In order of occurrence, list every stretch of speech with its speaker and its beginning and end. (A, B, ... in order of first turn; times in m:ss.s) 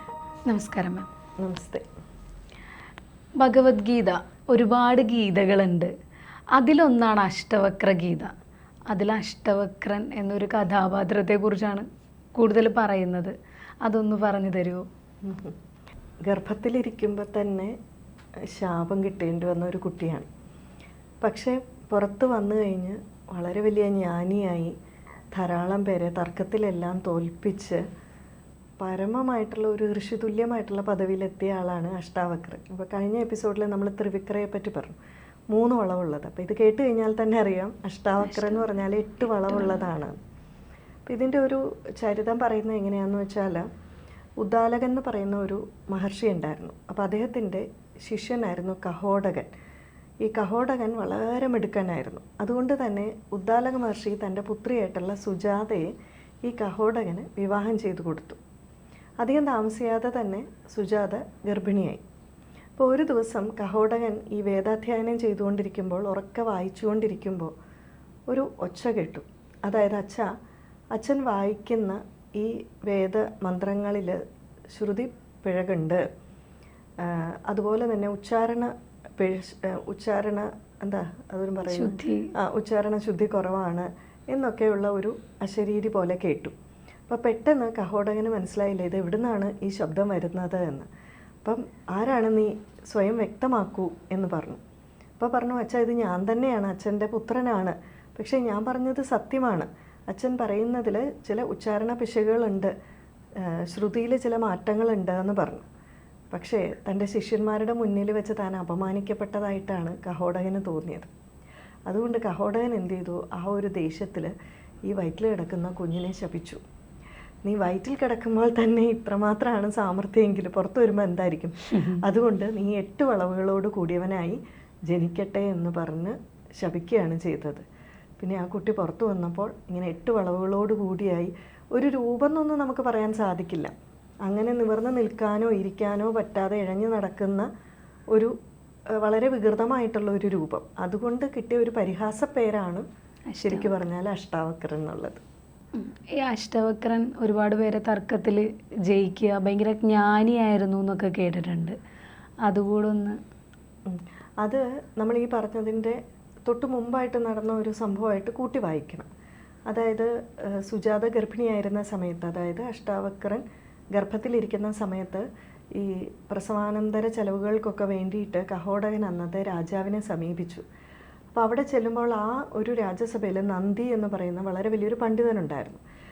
0:00.5-0:01.1 A
0:01.4-0:01.8 B
0:03.4-0:05.9 A
0:06.5-0:08.3 A
0:08.9-0:14.8 A
0:15.2-0:15.5 B
0:16.2-0:17.8 B
0:18.5-0:20.3 B
0:21.2-0:24.7 B
0:25.3-0:27.8 B
0:28.8-0:35.0 B
0:35.5-0:40.2 B
0:38.3-0:38.6 A
0:41.1-0:43.6 B
0:44.4-0:49.5 B
0:50.2-0:55.9 B
0:56.4-0:58.4 B
0:59.2-1:02.0 B
1:02.8-1:07.5 B
1:08.3-1:10.3 B
1:10.9-1:14.2 B
1:14.7-1:16.0 B
1:17.0-1:26.5 B
1:21.7-1:22.3 A
1:27.1-1:30.9 B
1:31.4-1:34.6 B
1:35.2-1:42.7 B
1:43.4-1:45.6 B
1:46.3-1:51.1 B
1:51.9-1:54.3 B
1:54.9-1:56.6 B
1:57.4-2:07.6 B
2:01.7-2:02.0 A
2:08.2-2:13.7 B
2:14.2-2:17.5 B
2:19.0-2:22.8 B
2:23.3-2:23.8 A
2:23.4-2:25.2 B
2:25.7-2:31.8 A
2:32.4-2:33.2 A
2:33.9-2:39.1 B
2:39.7-2:50.6 B
2:51.3-2:55.8 B